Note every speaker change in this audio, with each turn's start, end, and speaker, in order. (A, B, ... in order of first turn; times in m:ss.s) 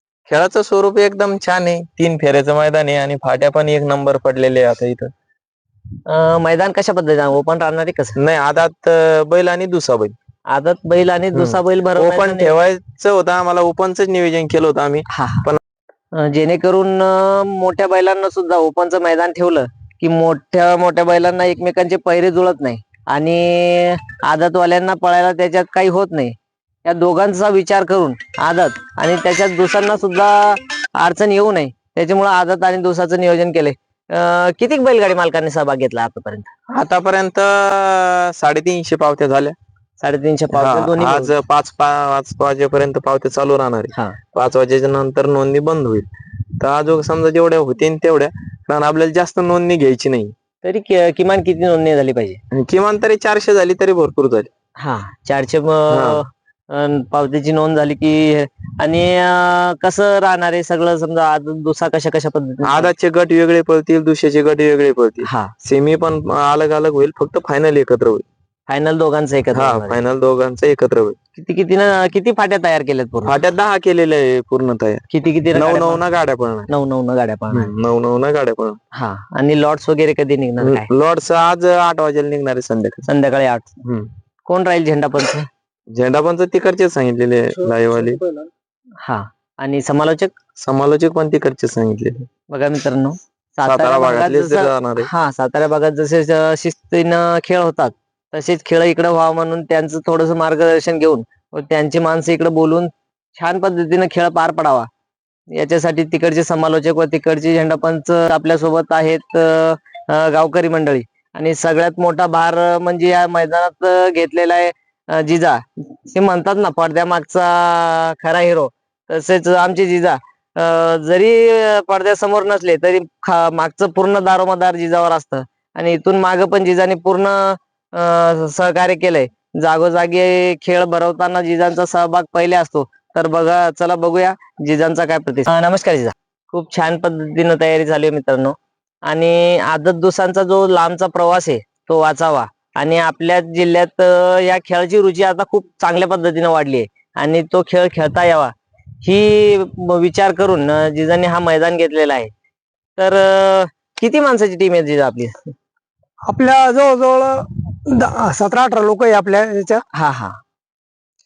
0:00.3-0:05.1 A
0:06.1-0:08.2 B
0:08.2-0:10.1 A
0:10.5-0:12.5 B
0:11.3-0:15.6 A
0:15.1-0:15.5 B
0:16.1-0:36.5 B
0:36.7-0:39.6 A
0:40.0-0:41.3 B
0:40.6-0:46.1 A
0:43.9-0:44.2 B
0:46.6-0:50.3 A
0:50.6-0:52.4 B
0:52.5-0:54.5 A
0:54.8-1:02.9 B
0:55.9-0:56.2 A
1:02.6-1:08.2 A
1:05.2-1:05.5 B
1:08.7-1:10.0 B
1:09.5-1:11.2 A
1:11.4-1:13.4 B
1:13.3-1:15.0 A
1:15.1-1:16.0 B
1:15.6-1:16.7 A
1:16.7-1:17.7 B
1:17.5-1:18.8 A
1:18.9-1:20.9 B
1:20.6-1:23.1 A
1:23.1-1:23.7 B
1:24.5-1:25.5 B
1:25.9-1:28.2 A
1:29.0-1:30.3 B
1:30.6-1:32.3 A
1:32.5-1:44.9 B
1:33.7-1:35.1 A
1:45.5-2:18.6 B
2:19.1-2:32.3 B
2:33.0-2:35.5 B
2:36.3-2:39.8 C
2:39.9-2:40.4 B